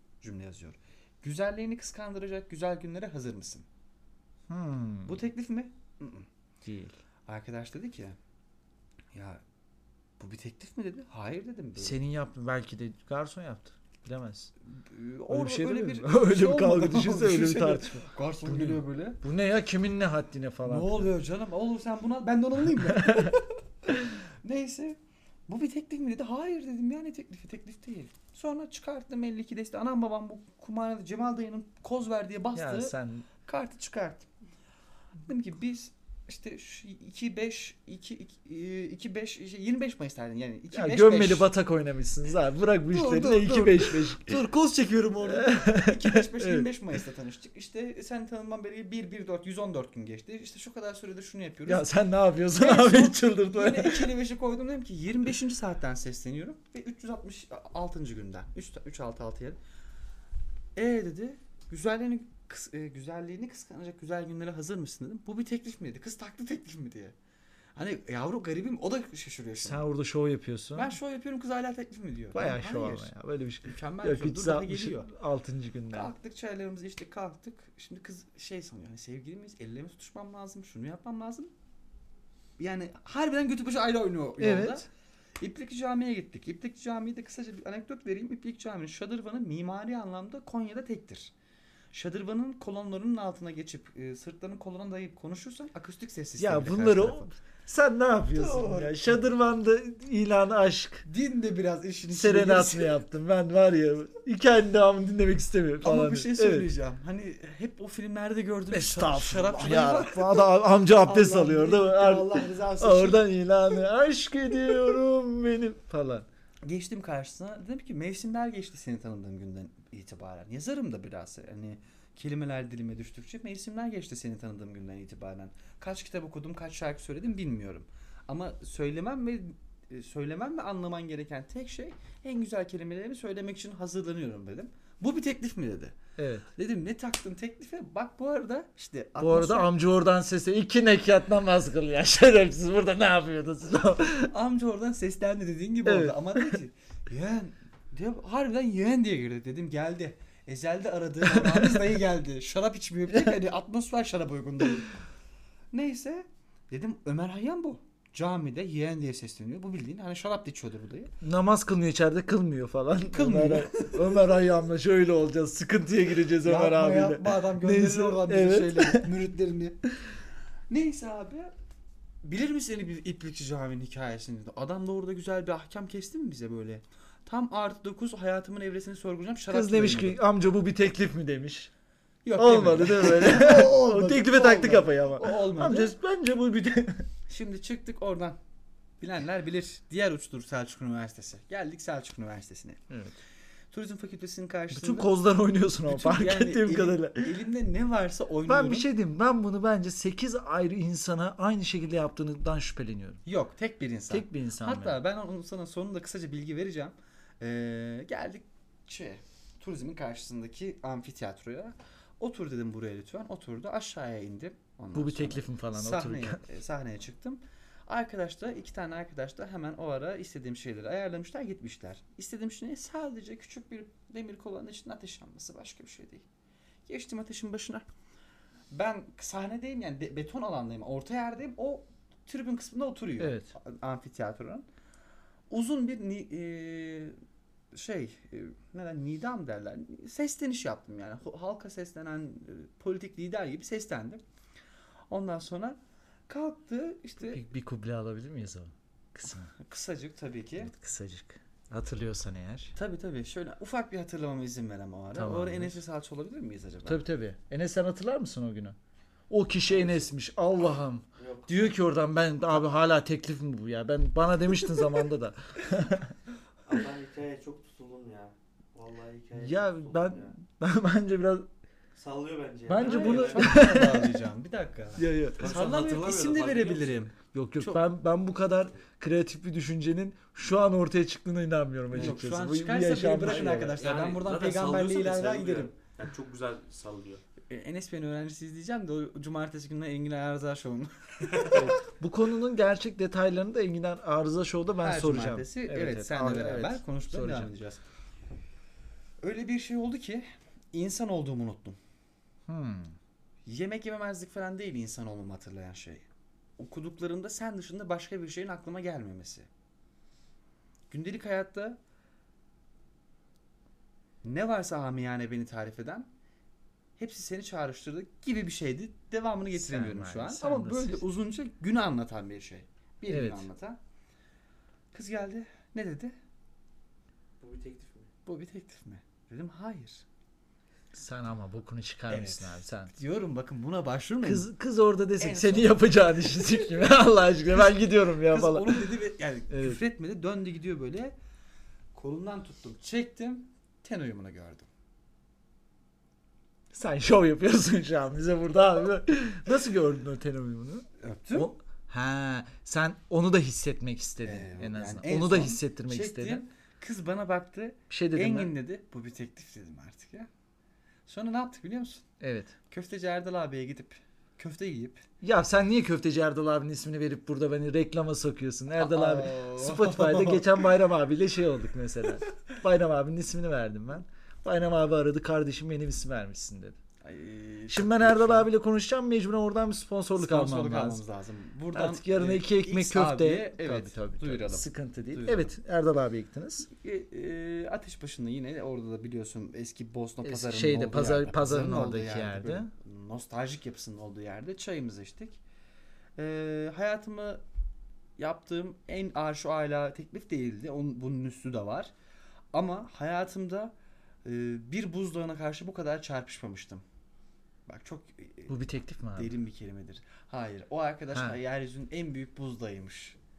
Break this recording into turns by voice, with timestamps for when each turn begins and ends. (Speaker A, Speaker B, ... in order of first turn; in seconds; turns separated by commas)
Speaker A: 0.2-3.6, Speaker B: 4.5-5.2, Speaker A: 5.0-6.3, Speaker B: 6.6-7.0, Speaker A: 7.3-8.2, Speaker A: 9.1-9.4, Speaker A: 10.2-12.0, Speaker B: 11.8-14.5, Speaker A: 14.7-19.2, Speaker B: 15.3-21.1, Speaker A: 20.6-32.9, Speaker B: 22.9-23.3, Speaker B: 32.5-33.3, Speaker A: 33.4-34.3, Speaker A: 35.2-41.5, Speaker B: 40.7-44.4, Speaker A: 42.9-51.9, Speaker B: 45.2-46.7, Speaker B: 51.7-54.1, Speaker A: 52.5-59.6, Speaker A: 60.7-67.1, Speaker A: 67.8-69.9, Speaker B: 69.6-70.9, Speaker A: 70.7-73.1, Speaker B: 72.3-76.1, Speaker A: 73.6-75.1, Speaker A: 75.9-81.5, Speaker A: 82.6-84.9, Speaker B: 84.4-84.8, Speaker A: 85.4-91.3, Speaker A: 91.9-97.3, Speaker B: 96.4-101.1, Speaker A: 98.3-99.2, Speaker A: 101.0-103.0, Speaker B: 102.1-106.7, Speaker A: 105.8-113.2, Speaker B: 108.7-116.3, Speaker A: 116.7-135.9, Speaker B: 136.2-136.5, Speaker A: 136.5-139.7, Speaker B: 139.2-144.3, Speaker A: 144.2-155.0, Speaker B: 145.8-146.5, Speaker B: 151.3-151.8, Speaker A: 155.7-161.1, Speaker B: 161.2-169.1, Speaker A: 163.1-164.3, Speaker A: 166.4-169.8, Speaker A: 170.7-171.5, Speaker A: 172.2-180.2, Speaker B: 179.5-181.7, Speaker A: 182.2-185.9, Speaker B: 182.4-187.1, Speaker A: 187.3-188.4, Speaker A: 189.0-192.8, Speaker B: 192.9-193.2, Speaker A: 193.7-195.1, Speaker B: 194.7-197.4, Speaker A: 195.8-198.9, Speaker B: 198.5-203.2, Speaker A: 203.2-226.2, Speaker B: 204.1-205.0, Speaker B: 214.9-216.4, Speaker A: 226.8-227.8, Speaker A: 228.7-234.7, Speaker B: 233.2-233.5, Speaker A: 235.5-237.1, Speaker A: 237.7-244.2, Speaker A: 245.1-245.8, Speaker A: 246.3-247.4, Speaker B: 247.2-249.5, Speaker A: 249.6-250.7, Speaker B: 250.6-252.7, Speaker A: 252.7-257.0, Speaker B: 255.1-255.8, Speaker B: 256.9-258.8, Speaker B: 259.3-266.1, Speaker C: 261.2-261.7, Speaker C: 266.6-270.3, Speaker B: 269.3-271.5, Speaker C: 271.9-273.7, Speaker B: 272.7-274.2, Speaker A: 272.8-277.8, Speaker B: 275.0-275.7, Speaker C: 275.4-277.0, Speaker B: 277.3-283.8, Speaker A: 281.9-285.7, Speaker C: 283.8-287.2, Speaker A: 287.5-291.8, Speaker B: 291.5-297.5, Speaker A: 294.8-297.8, Speaker A: 299.2-301.8, Speaker B: 302.5-302.9, Speaker A: 303.4-306.0, Speaker A: 306.6-309.5, Speaker A: 310.9-311.8, Speaker A: 314.2-316.1, Speaker A: 317.0-323.8, Speaker B: 319.5-321.0, Speaker B: 323.1-323.5, Speaker A: 324.9-326.1, Speaker C: 327.4-328.1, Speaker A: 328.2-330.0, Speaker B: 330.9-332.9, Speaker A: 332.1-334.5, Speaker B: 334.2-338.9, Speaker A: 335.2-335.8, Speaker A: 337.5-341.1, Speaker B: 339.5-339.8, Speaker A: 341.9-344.7, Speaker B: 346.7-356.4, Speaker A: 351.0-351.5, Speaker A: 354.2-360.3, Speaker B: 357.9-358.5, Speaker A: 361.1-362.1, Speaker B: 362.2-362.5, Speaker A: 362.7-365.1, Speaker B: 365.2-376.8, Speaker A: 368.7-370.6, Speaker A: 377.0-378.5, Speaker B: 377.7-381.0, Speaker A: 380.1-385.5, Speaker B: 381.7-386.7, Speaker A: 386.7-395.4, Speaker B: 390.2-392.7, Speaker A: 396.2-397.4, Speaker A: 398.2-401.9, Speaker A: 402.5-403.7, Speaker A: 404.2-406.8, Speaker A: 407.7-408.6, Speaker B: 408.5-409.4, Speaker A: 409.1-413.2, Speaker B: 411.1-411.4